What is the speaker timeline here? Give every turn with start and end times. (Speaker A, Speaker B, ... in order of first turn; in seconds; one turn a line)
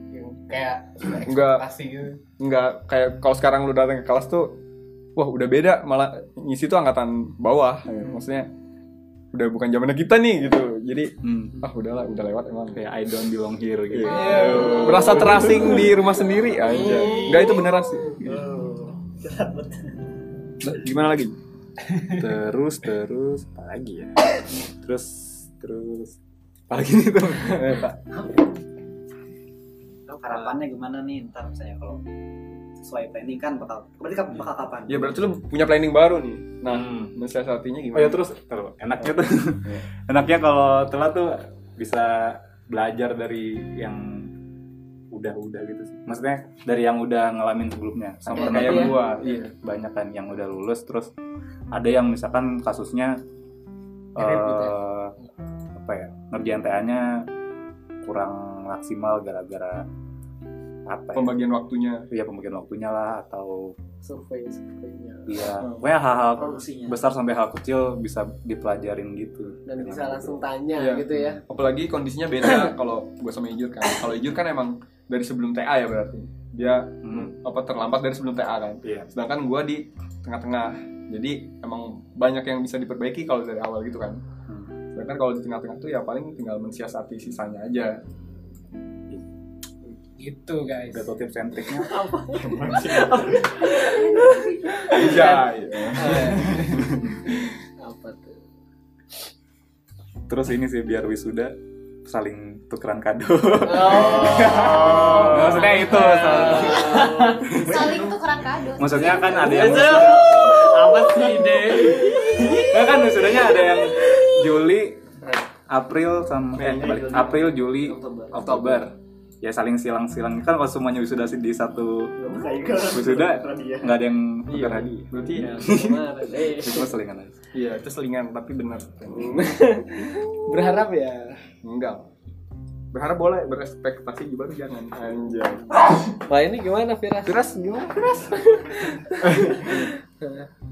Speaker A: 0.1-2.2
Speaker B: 1.2-1.6
Speaker B: 2.4-4.6
Speaker B: 5.2-8.5
Speaker B: 9.3-12.8
Speaker C: 11.2-11.6
Speaker C: 12.7-14.8
Speaker B: 13.9-18.4
Speaker A: 14.1-15.1
Speaker D: 14.4-15.1
Speaker E: 16.7-17.6
Speaker E: 18.2-19.9
Speaker B: 20.6-21.3
Speaker A: 21.9-22.2
Speaker C: 22.1-24.1
Speaker C: 24.8-26.2
Speaker C: 26.7-27.9
Speaker B: 27.4-27.9
Speaker D: 30.1-30.5
Speaker E: 30.2-32.0
Speaker E: 32.8-35.2
Speaker B: 34.9-38.2
Speaker C: 36.7-37.1
Speaker C: 37.9-44.3
Speaker B: 39.0-39.8
Speaker C: 45.1-51.1
Speaker B: 48.3-49.5
Speaker D: 48.3-48.9
Speaker C: 51.7-53.2
Speaker C: 54.1-55.1
Speaker C: 55.7-57.3
Speaker C: 58.0-59.9
Speaker C: 60.9-61.4
Speaker B: 61.1-62.1
Speaker C: 62.1-63.7
Speaker D: 64.0-65.4
Speaker C: 65.3-70.4
Speaker B: 65.6-65.9
Speaker E: 66.4-67.0
Speaker D: 69.7-71.4
Speaker B: 70.8-84.2
Speaker C: 77.0-77.3
Speaker C: 78.8-79.1
Speaker B: 84.9-88.0
Speaker A: 90.2-91.1
Speaker C: 90.9-91.9
Speaker D: 91.8-96.7
Speaker B: 92.4-93.4
Speaker F: 93.7-94.9
Speaker B: 94.8-97.1
Speaker D: 97.8-98.4
Speaker C: 100.3-101.5
Speaker C: 102.0-107.3
Speaker D: 103.7-107.6
Speaker B: 104.2-105.8
Speaker A: 105.9-106.6
Speaker F: 107.5-109.7
Speaker E: 107.5-108.1
Speaker C: 108.8-110.6
Speaker D: 109.4-112.5
Speaker A: 109.5-109.9
Speaker A: 110.7-112.0
Speaker E: 111.4-112.5
Speaker C: 112.4-115.1
Speaker C: 115.7-122.1
Speaker E: 116.6-118.8
Speaker B: 116.6-116.8
Speaker E: 122.2-124.0
Speaker C: 122.8-125.9
Speaker B: 124.5-125.8
Speaker D: 125.3-127.0
Speaker C: 126.4-127.4
Speaker B: 127.5-129.8
Speaker D: 129.1-131.4
Speaker B: 131.6-132.1
Speaker B: 132.9-135.8
Speaker D: 136.3-137.4
Speaker B: 137.2-139.9
Speaker D: 138.7-140.5